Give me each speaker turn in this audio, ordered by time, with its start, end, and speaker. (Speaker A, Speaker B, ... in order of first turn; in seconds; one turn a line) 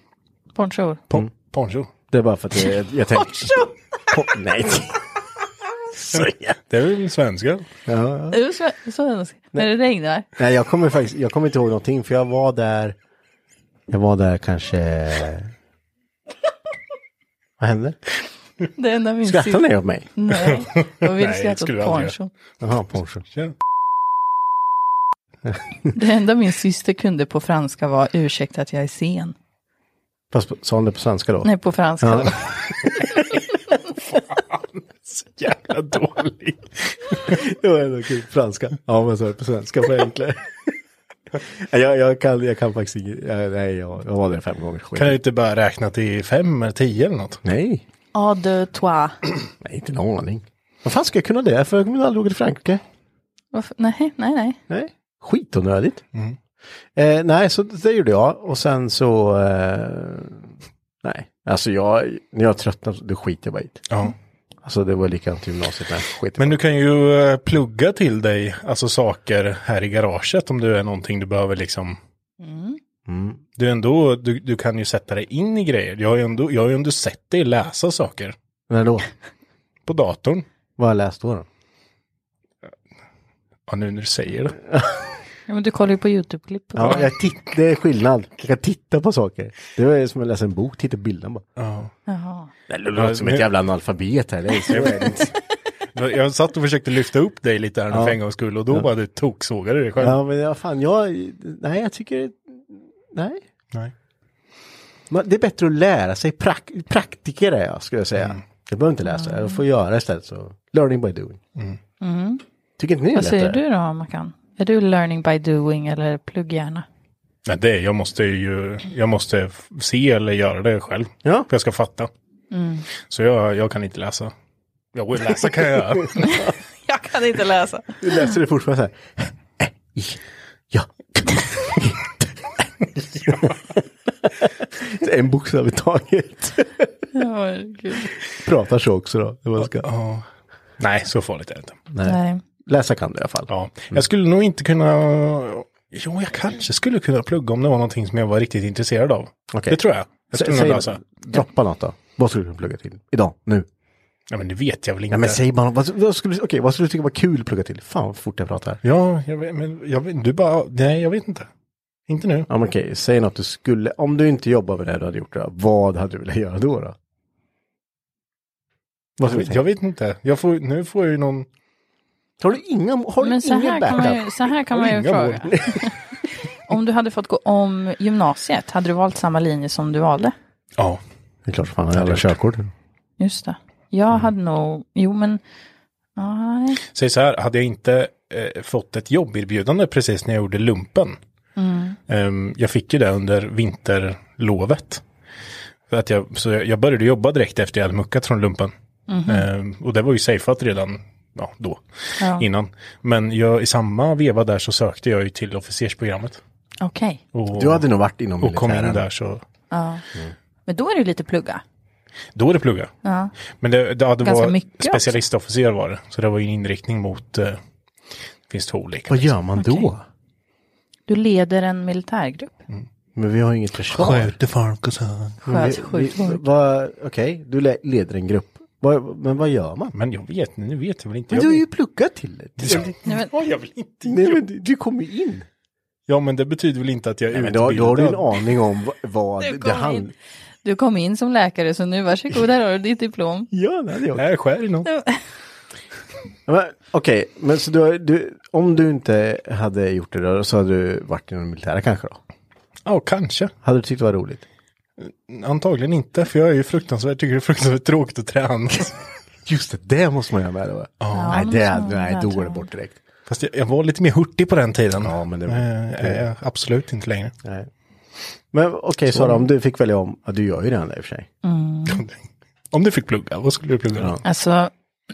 Speaker A: 0.5-1.0
Speaker B: 1.1-1.9
Speaker C: 2.1-5.0
Speaker A: 3.2-3.7
Speaker C: 5.9-6.6
Speaker B: 6.1-7.7
Speaker C: 7.8-8.4
Speaker A: 8.3-10.3
Speaker C: 10.4-12.9
Speaker C: 13.9-15.5
Speaker C: 17.6-18.0
Speaker A: 18.8-22.3
Speaker C: 19.2-20.1
Speaker B: 20.4-22.1
Speaker C: 22.6-23.2
Speaker A: 25.9-29.3
Speaker C: 30.3-33.4
Speaker A: 31.4-32.4
Speaker B: 34.1-37.4
Speaker C: 37.2-40.7
Speaker C: 41.3-45.2
Speaker B: 45.0-47.4
Speaker C: 47.4-47.8
Speaker A: 48.1-49.2
Speaker C: 49.6-52.8
Speaker A: 53.5-54.6
Speaker C: 54.7-56.0
Speaker C: 57.0-60.5
Speaker C: 61.0-63.9
Speaker C: 64.6-66.6
Speaker B: 66.4-72.0
Speaker A: 72.4-72.8
Speaker C: 73.1-73.4
Speaker B: 73.6-78.3
Speaker C: 78.7-79.0
Speaker B: 79.9-80.4
Speaker C: 80.8-81.5
Speaker B: 83.7-84.6
Speaker A: 85.5-87.1
Speaker C: 86.7-91.4
Speaker B: 91.6-91.9
Speaker A: 92.1-92.5
Speaker C: 92.7-95.3
Speaker B: 92.9-93.5
Speaker B: 94.7-95.2
Speaker B: 95.9-100.2
Speaker C: 97.9-98.2
Speaker C: 100.0-103.4
Speaker C: 105.1-111.4
Speaker A: 109.2-109.5
Speaker A: 112.0-112.4
Speaker C: 112.8-113.6
Speaker A: 113.1-116.8
Speaker B: 117.5-122.1
Speaker A: 122.5-122.9
Speaker B: 123.0-124.3
Speaker B: 124.9-126.3
Speaker C: 126.0-126.3
Speaker A: 126.2-128.3
Speaker C: 128.0-136.9
Speaker B: 133.2-133.5
Speaker A: 137.1-138.1
Speaker C: 138.3-139.9
Speaker B: 139.6-140.2
Speaker B: 140.8-141.8
Speaker C: 141.9-144.0
Speaker A: 142.0-142.4
Speaker B: 143.5-151.0
Speaker C: 149.5-149.8
Speaker C: 150.3-153.7
Speaker B: 154.3-155.4
Speaker C: 155.1-158.8
Speaker B: 158.8-161.5
Speaker B: 162.1-162.5
Speaker C: 162.5-166.9
Speaker C: 169.2-169.6
Speaker B: 169.2-171.4
Speaker C: 172.4-174.3
Speaker A: 173.2-175.9
Speaker B: 174.7-175.6
Speaker A: 176.7-180.3
Speaker C: 181.4-182.7
Speaker B: 181.9-182.3
Speaker A: 183.2-185.4
Speaker A: 186.2-186.8
Speaker B: 186.9-191.2
Speaker A: 191.6-192.0
Speaker B: 192.1-195.0
Speaker B: 195.9-198.7
Speaker A: 199.1-199.4
Speaker B: 199.3-206.4
Speaker A: 202.2-202.4
Speaker A: 206.8-207.2
Speaker B: 207.3-207.8
Speaker C: 207.5-209.0
Speaker B: 208.4-209.4
Speaker A: 209.7-210.0
Speaker A: 210.7-211.6
Speaker B: 212.3-212.9
Speaker A: 213.0-213.3
Speaker B: 213.6-217.6
Speaker A: 214.2-215.2
Speaker B: 218.5-219.3
Speaker C: 219.1-220.0
Speaker A: 219.6-219.9
Speaker A: 221.1-222.5
Speaker C: 223.1-224.3
Speaker B: 223.9-225.4
Speaker A: 225.4-226.4
Speaker C: 225.4-229.9
Speaker B: 229.9-231.6
Speaker C: 231.3-232.9
Speaker B: 232.6-234.4
Speaker C: 234.1-235.4
Speaker B: 236.1-238.3
Speaker C: 237.3-240.1
Speaker A: 239.4-240.0
Speaker A: 240.6-243.5
Speaker C: 243.5-244.2
Speaker B: 244.1-244.9
Speaker A: 244.8-245.2
Speaker C: 246.5-252.2
Speaker B: 252.8-253.5
Speaker C: 253.6-254.4
Speaker B: 255.0-259.0
Speaker C: 259.4-263.0
Speaker B: 261.0-261.4
Speaker A: 261.1-262.7
Speaker B: 263.3-267.3
Speaker C: 265.0-266.2
Speaker C: 267.4-267.7
Speaker C: 268.5-271.3
Speaker B: 269.1-269.4
Speaker A: 271.4-272.0
Speaker B: 271.9-272.2
Speaker B: 272.7-274.2
Speaker A: 274.2-274.7